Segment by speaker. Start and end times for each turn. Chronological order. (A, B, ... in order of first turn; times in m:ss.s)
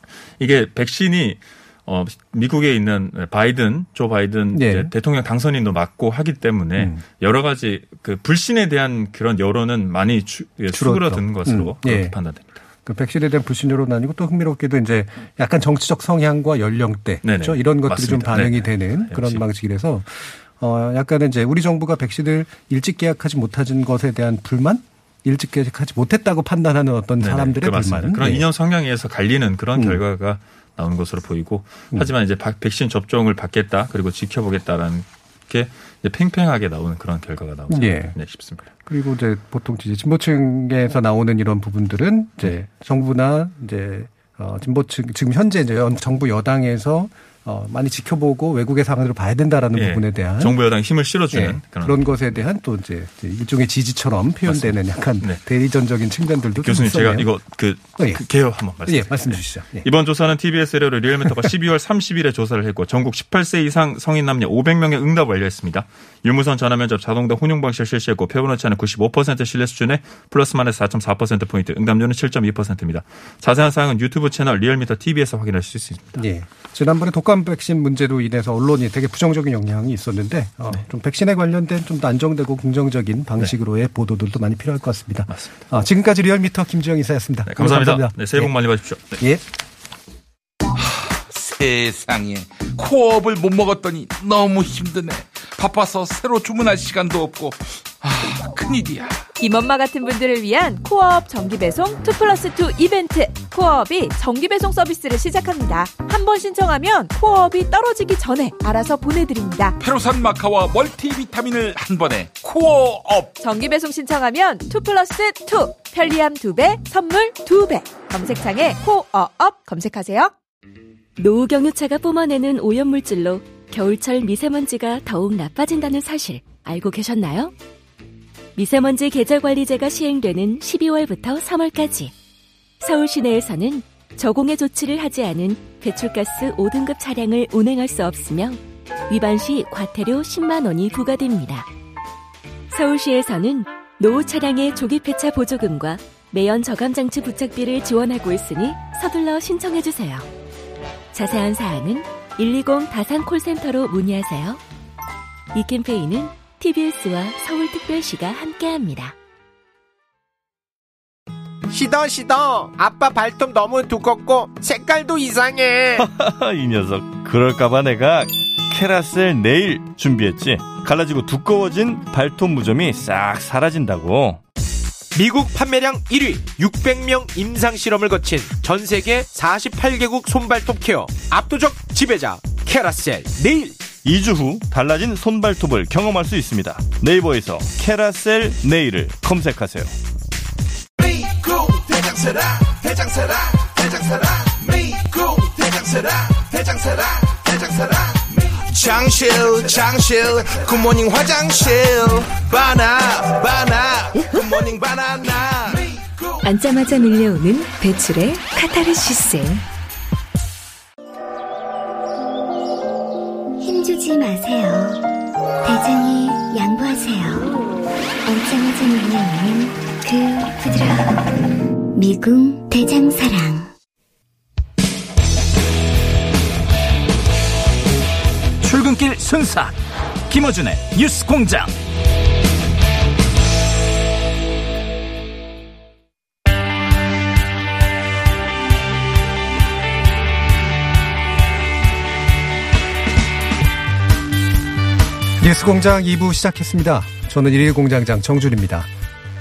0:00.4-0:12.6 A
0:04.5-0:04.9 B
0:10.7-0:12.2 B
0:12.8-0:28.4 B
0:17.2-0:19.4 A
0:27.2-0:38.6 A
0:29.8-0:30.0 B
0:37.7-0:38.2 B
0:38.8-0:50.6 B
0:49.7-0:52.4 A
0:51.3-0:57.3 B
0:54.4-0:55.4 A
0:56.6-1:16.2 A
0:58.0-0:59.9 B
1:16.2-1:28.5 B
1:27.5-1:29.2 A
1:29.1-1:29.4 B
1:30.8-1:39.3 C
1:39.4-1:49.8 D
1:49.8-1:53.3 C
1:53.4-2:00.4 D
2:01.2-2:07.5 E
2:08.6-2:12.1 E
2:12.8-2:21.7 E
2:22.7-2:30.3 E
2:31.1-2:34.6 E
2:35.5-2:39.1 E
2:41.7-2:46.0 F
2:46.0-2:54.4 G
2:55.1-3:03.8 F
3:03.9-3:09.9 G
3:15.6-3:15.9 C
3:18.8-3:23.9 C
3:24.2-3:24.5 H
3:24.6-3:25.6 C
3:26.4-3:29.6 H
3:33.6-3:35.0 I
3:35.6-3:37.6 I
3:38.2-3:41.4 I
3:41.9-3:43.7 I
3:48.6-3:49.8 J
3:50.3-3:51.7 J
4:05.4-4:08.9 B